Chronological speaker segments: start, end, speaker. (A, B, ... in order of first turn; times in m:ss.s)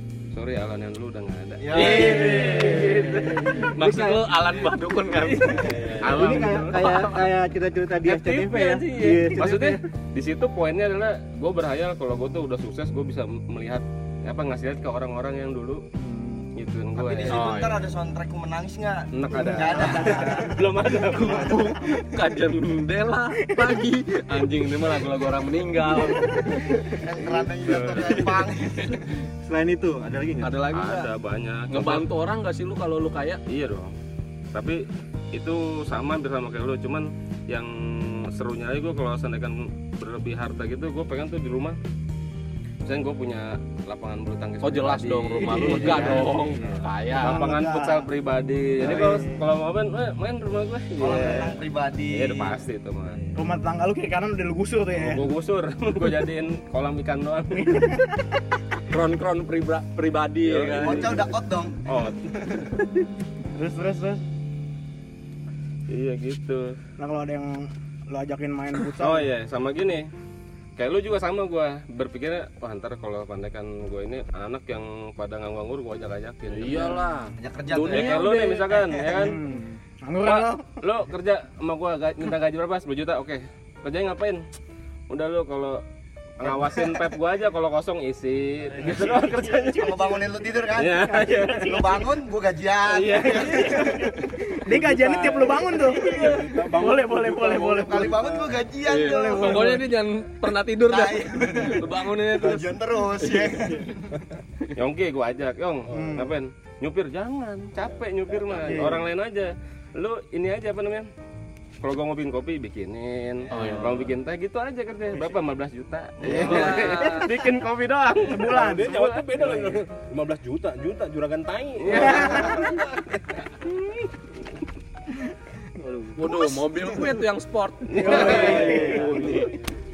0:00.3-0:03.7 A
0:01.6-0:02.9 B
0:01.7-0:07.2 C
0:03.8-0:04.2 D
0:05.1-0:07.1 A
0:05.6-0:06.4 E
0:06.1-0:09.8 D
0:08.0-0:15.8 A
0:16.0-0:16.4 F
0:16.6-0:17.8 A
0:17.0-0:20.6 B
0:17.3-0:17.9 C
0:19.2-0:26.8 C
0:19.4-0:21.8 A
0:19.9-0:20.6 F
0:21.2-0:21.6 B
0:26.8-0:29.0 B
0:27.6-0:28.2 A
0:27.7-0:28.3 C
0:29.4-0:30.6 D
0:30.4-0:31.1 C
0:30.7-0:32.1 A
0:31.7-0:33.4 C
0:33.5-0:33.9 A
0:34.5-0:41.8 A
0:42.8-0:46.5 A
0:44.6-0:47.5 C
0:45.4-0:46.3 F
0:47.2-0:48.1 F
0:47.2-0:53.2 A
0:48.8-0:49.1 D
0:48.8-0:49.4 F
0:51.0-0:52.6 B
0:53.4-0:55.3 F
0:54.9-0:57.9 A
0:57.6-0:58.1 F
0:58.9-1:01.2 C
1:00.4-1:01.2 A
1:00.7-1:01.8 B
1:01.9-1:02.2 A
1:03.6-1:04.2 F
1:05.9-1:06.8 A
1:07.0-1:09.3 F
1:08.8-1:10.1 A
1:10.8-1:17.0 A
1:16.5-1:18.9 C
1:17.4-1:18.4 B
1:17.9-1:19.4 A
1:19.1-1:20.7 F
1:20.2-1:24.4 A
1:25.1-1:25.8 A
1:26.4-1:30.2 A
1:28.8-1:29.4 E
1:28.9-1:29.2 C
1:29.7-1:34.1 B
1:30.7-1:32.1 A
1:32.9-1:34.1 C
1:33.1-1:34.2 A
1:34.5-1:36.2 F
1:34.7-1:38.7 E
1:36.0-1:36.3 A
1:36.0-1:38.2 C
1:37.5-1:39.9 B
1:38.8-1:43.8 C
1:38.9-1:39.8 F
1:40.8-1:44.1 B
1:44.8-1:51.1 A
1:45.9-1:46.2 E
1:45.9-1:46.4 F
1:47.8-1:48.9 E
1:48.7-1:49.0 F
1:51.8-1:59.8 A
1:53.5-1:54.1 C
1:56.2-1:57.0 B
1:56.3-1:57.3 C
1:58.2-1:59.1 F
1:58.3-2:03.4 E
2:01.8-2:02.7 A
2:01.9-2:02.7 F
2:05.8-2:06.4 D
2:06.2-2:09.6 C
2:07.9-2:09.3 A
2:08.0-2:09.6 E
2:08.2-2:08.7 D
2:08.2-2:09.0 F